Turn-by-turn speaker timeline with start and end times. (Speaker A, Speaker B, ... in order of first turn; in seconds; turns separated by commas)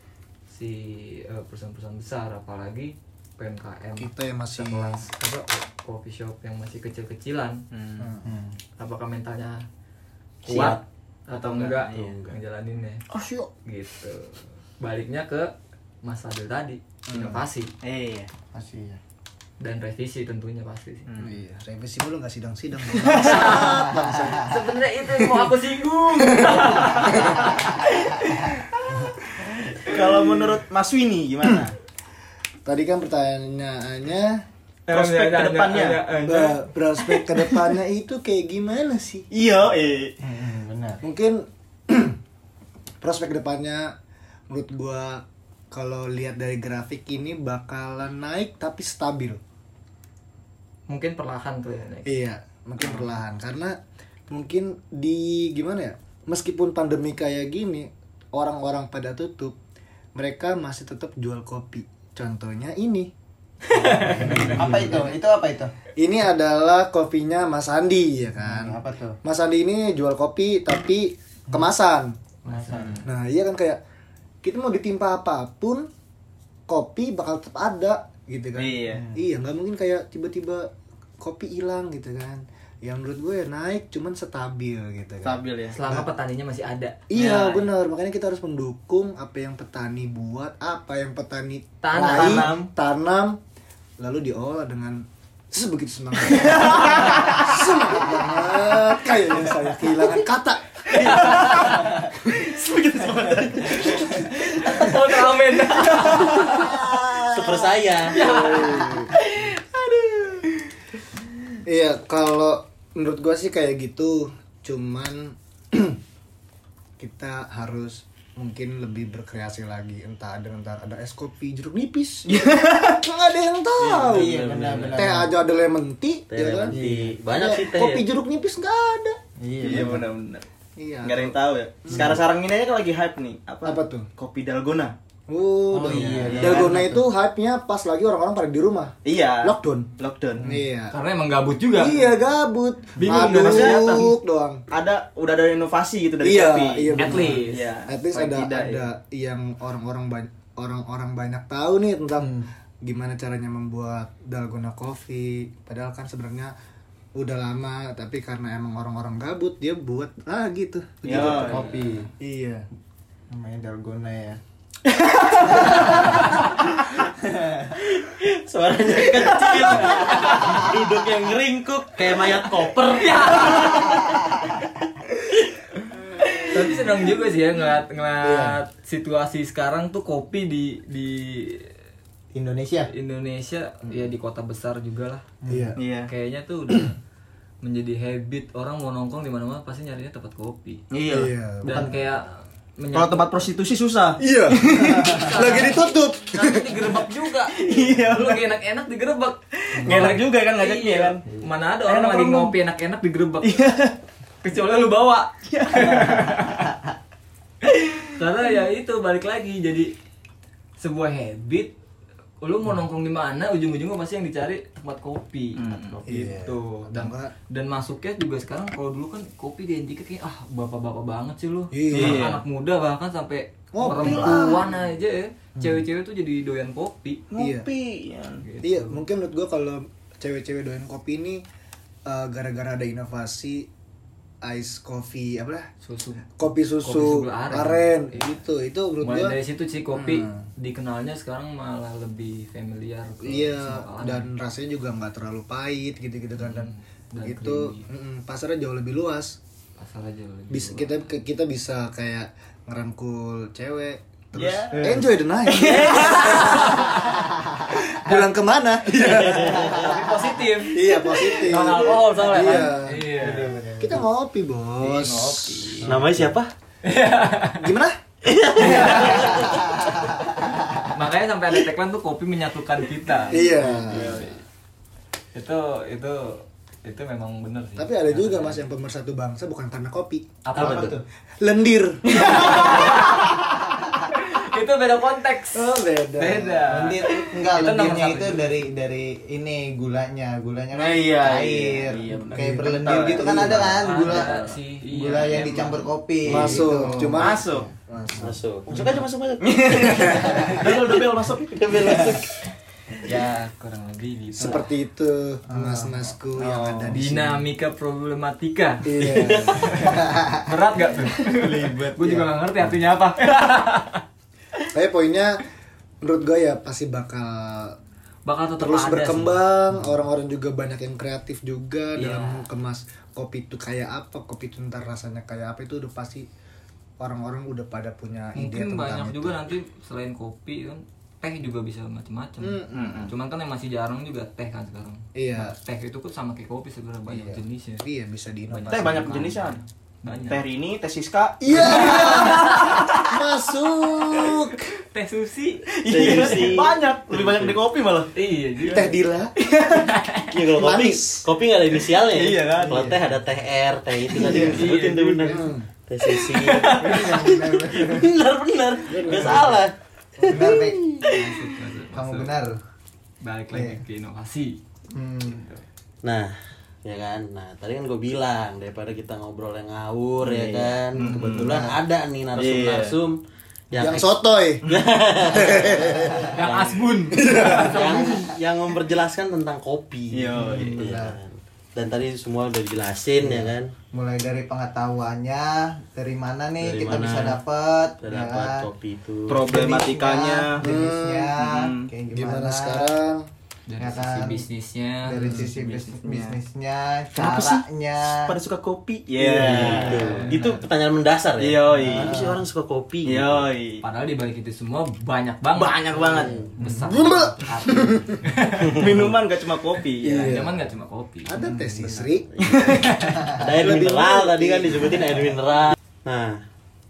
Speaker A: 0.5-7.6, Speaker B: 4.0-5.0, Speaker C: 7.7-8.1, Speaker B: 8.0-8.3, Speaker D: 8.2-8.6, Speaker A: 8.8-9.7, Speaker E: 10.4-10.8, Speaker A: 10.5-13.1, Speaker C: 10.5-10.8, Speaker C: 11.3-12.4, Speaker B: 13.1-13.5, Speaker A: 13.7-17.7, Speaker B: 17.1-17.4, Speaker C: 17.1-18.3, Speaker D: 18.5-19.0, Speaker A: 19.6-21.1, Speaker C: 21.1-21.4, Speaker B: 21.2-25.5, Speaker C: 23.1-23.5, Speaker A: 23.1-28.7, Speaker D: 23.6-24.3, Speaker B: 26.2-27.6, Speaker C: 29.8-31.7, Speaker B: 32.7-34.5, Speaker A: 34.9-36.7, Speaker C: 34.9-36.1, Speaker B: 36.3-39.3, Speaker C: 39.3-40.2, Speaker D: 40.2-41.0, Speaker B: 40.3-42.2, Speaker B: 43.0-44.0, Speaker B: 44.5-49.4, Speaker A: 50.9-52.2, Speaker B: 52.0-53.8, Speaker B: 54.3-59.6, Speaker B: 60.1-63.1, Speaker A: 63.6-65.0, Speaker B: 63.8-65.2, Speaker D: 64.0-65.7, Speaker B: 66.0-72.2, Speaker D: 68.4-69.2, Speaker A: 72.4-73.0, Speaker D: 72.5-73.0, Speaker C: 72.8-73.0, Speaker B: 73.0-73.8, Speaker B: 74.4-75.9, Speaker B: 76.7-80.7, Speaker C: 78.5-79.0, Speaker D: 78.9-79.2, Speaker B: 81.2-86.1, Speaker C: 85.2-85.8, Speaker A: 85.7-87.1, Speaker B: 87.1-93.4, Speaker C: 87.2-87.6, Speaker A: 91.8-92.6, Speaker C: 92.1-92.7, Speaker B: 94.0-101.5, Speaker C: 96.6-97.4, Speaker C: 101.0-104.1, Speaker A: 101.0-102.0, Speaker B: 102.2-102.6, Speaker B: 103.6-104.2, Speaker A: 103.8-107.0, Speaker E: 106.3-108.2, Speaker A: 108.1-110.5, Speaker B: 108.1-109.1, Speaker B: 111.7-116.0, Speaker B: 117.0-126.8, Speaker C: 122.3-123.0, Speaker E: 123.8-125.3, Speaker D: 124.0-125.3, Speaker E: 126.3-128.1, Speaker D: 126.7-127.2, Speaker B: 127.3-130.0, Speaker D: 129.4-130.1, Speaker C: 129.6-130.4, Speaker B: 130.8-132.2, Speaker C: 131.0-134.9, Speaker D: 131.9-132.2, Speaker B: 133.7-134.1, Speaker B: 135.3-140.9, Speaker D: 135.7-137.1, Speaker C: 135.9-136.8, Speaker C: 139.1-140.6, Speaker A: 140.9-142.2, Speaker B: 141.8-144.6, Speaker A: 143.0-144.1, Speaker C: 143.2-144.0, Speaker C: 144.7-148.8, Speaker B: 146.2-156.5, Speaker A: 146.9-147.7, Speaker D: 152.2-152.5, Speaker B: 157.2-162.7, Speaker C: 161.0-161.7, Speaker D: 161.1-162.1, Speaker A: 161.4-162.0, Speaker D: 163.3-164.4, Speaker C: 164.9-165.8, Speaker D: 167.2-167.7, Speaker E: 167.8-174.1, Speaker A: 169.8-170.7, Speaker A: 172.9-174.1, Speaker A: 176.5-181.7, Speaker B: 178.2-178.6, Speaker D: 182.3-182.9, Speaker A: 182.9-185.3, Speaker D: 185.4-185.7, Speaker B: 185.5-185.8, Speaker C: 185.8-186.1, Speaker A: 186.1-187.0, Speaker A: 187.6-190.9, Speaker C: 190.9-191.9, Speaker B: 191.1-191.9, Speaker A: 191.6-193.4, Speaker C: 192.9-195.2, Speaker B: 194.2-196.8, Speaker A: 195.1-203.7, Speaker C: 197.6-198.4, Speaker C: 199.7-201.2, Speaker C: 201.8-202.6, Speaker C: 203.4-204.0, Speaker A: 204.4-206.8, Speaker C: 205.5-206.4, Speaker A: 208.2-209.9, Speaker A: 210.8-211.7, Speaker A: 212.4-227.3, Speaker C: 215.6-216.0, Speaker B: 216.1-217.3, Speaker B: 221.7-222.4, Speaker C: 221.9-222.4, Speaker B: 223.7-224.7, Speaker C: 224.0-224.6, Speaker B: 225.6-225.8, Speaker C: 227.3-228.4, Speaker B: 227.4-227.7, Speaker A: 228.4-229.0, Speaker B: 228.6-231.4, Speaker B: 232.1-233.7, Speaker B: 234.4-235.7, Speaker A: 235.8-238.3, Speaker B: 236.4-239.3, Speaker A: 239.0-244.3, Speaker B: 239.9-240.5, Speaker B: 243.2-249.4, Speaker A: 246.4-247.8, Speaker A: 249.8-251.1, Speaker B: 250.5-259.9, Speaker C: 254.3-254.9, Speaker C: 255.5-256.8, Speaker A: 255.8-257.2, Speaker E: 256.1-256.4, Speaker D: 257.6-258.1, Speaker E: 258.9-260.1, Speaker A: 259.7-264.0, Speaker B: 260.7-263.1, Speaker D: 263.1-264.0, Speaker B: 263.8-266.4, Speaker A: 264.8-266.0, Speaker E: 265.8-266.5, Speaker A: 266.8-267.7, Speaker B: 267.6-268.0, Speaker E: 268.2-269.7, Speaker A: 268.6-269.6, Speaker B: 268.6-269.2, Speaker A: 270.8-274.4, Speaker B: 273.3-274.2, Speaker C: 273.6-274.3, Speaker A: 275.3-278.6, Speaker B: 277.8-280.9, Speaker A: 280.4-280.9, Speaker D: 280.6-281.0, Speaker E: 280.6-280.9, Speaker B: 281.4-283.0, Speaker C: 282.1-283.1, Speaker A: 282.1-283.4, Speaker A: 284.1-288.5, Speaker B: 285.5-286.9, Speaker D: 286.7-298.3, Speaker C: 290.7-294.4, Speaker B: 293.2-293.7, Speaker A: 293.6-296.7, Speaker B: 296.2-299.0, Speaker C: 297.1-297.7, Speaker E: 298.2-302.4, Speaker C: 299.4-302.2, Speaker A: 303.0-304.7, Speaker B: 304.4-307.4, Speaker D: 305.5-307.0, Speaker A: 306.9-314.0, Speaker B: 308.8-310.0, Speaker E: 309.0-309.7, Speaker D: 309.9-310.4, Speaker C: 311.3-312.1, Speaker B: 314.7-315.4, Speaker B: 316.0-317.8, Speaker A: 318.3-319.4, Speaker B: 318.6-326.3, Speaker A: 321.9-322.5, Speaker B: 327.0-329.4, Speaker A: 328.4-337.9, Speaker B: 332.4-333.0, Speaker C: 332.7-333.1, Speaker B: 335.1-335.6, Speaker B: 337.1-339.4, Speaker A: 338.5-340.4, Speaker C: 338.7-339.6, Speaker C: 340.2-343.2, Speaker B: 341.4-344.7, Speaker A: 341.5-342.8, Speaker A: 344.9-345.7, Speaker C: 345.7-348.1, Speaker E: 345.9-347.6, Speaker A: 348.1-349.0, Speaker B: 348.6-349.4, Speaker C: 349.4-349.9, Speaker A: 349.7-350.4, Speaker E: 350.3-361.1, Speaker D: 350.6-351.0, Speaker B: 350.7-351.2, Speaker C: 352.0-352.9, Speaker D: 352.6-353.0, Speaker D: 354.2-354.7, Speaker C: 354.3-354.6, Speaker A: 354.4-355.3, Speaker B: 355.3-355.7, Speaker A: 356.4-357.3, Speaker D: 356.6-358.1, Speaker B: 358.9-359.7, Speaker B: 360.2-360.4, Speaker D: 360.2-362.6, Speaker A: 361.4-362.3, Speaker A: 363.2-364.6, Speaker D: 364.9-365.4, Speaker A: 365.3-365.6, Speaker E: 366.0-366.3, Speaker E: 366.9-373.2, Speaker C: 370.2-371.6, Speaker D: 371.0-371.8, Speaker C: 372.4-373.0, Speaker E: 373.7-383.7, Speaker B: 373.8-374.7, Speaker B: 375.3-376.4, Speaker A: 376.3-377.9, Speaker B: 377.1-378.0, Speaker D: 377.8-378.3, Speaker C: 380.1-380.9, Speaker D: 380.3-381.2, Speaker D: 383.2-388.7, Speaker E: 386.6-387.4, Speaker E: 388.0-389.5, Speaker C: 389.3-390.6, Speaker D: 389.4-392.9, Speaker B: 390.6-391.4, Speaker C: 391.4-391.9, Speaker B: 392.1-393.2, Speaker A: 393.7-395.5, Speaker D: 393.8-394.5, Speaker D: 395.1-398.4, Speaker B: 395.2-395.5, Speaker C: 395.5-396.4, Speaker C: 397.2-400.2, Speaker D: 399.2-400.2, Speaker E: 399.3-403.5, Speaker A: 399.6-400.7, Speaker C: 401.4-402.2, Speaker D: 401.8-402.4, Speaker C: 403.1-403.8, Speaker A: 403.8-408.9, Speaker C: 405.6-406.5, Speaker D: 406.1-406.5, Speaker B: 406.6-408.3, Speaker C: 408.7-410.4, Speaker B: 410.0-410.6, Speaker A: 410.2-411.3, Speaker B: 411.3-412.3, Speaker E: 412.1-416.4, Speaker C: 412.4-412.9, Speaker A: 412.6-413.2, Speaker B: 413.6-415.1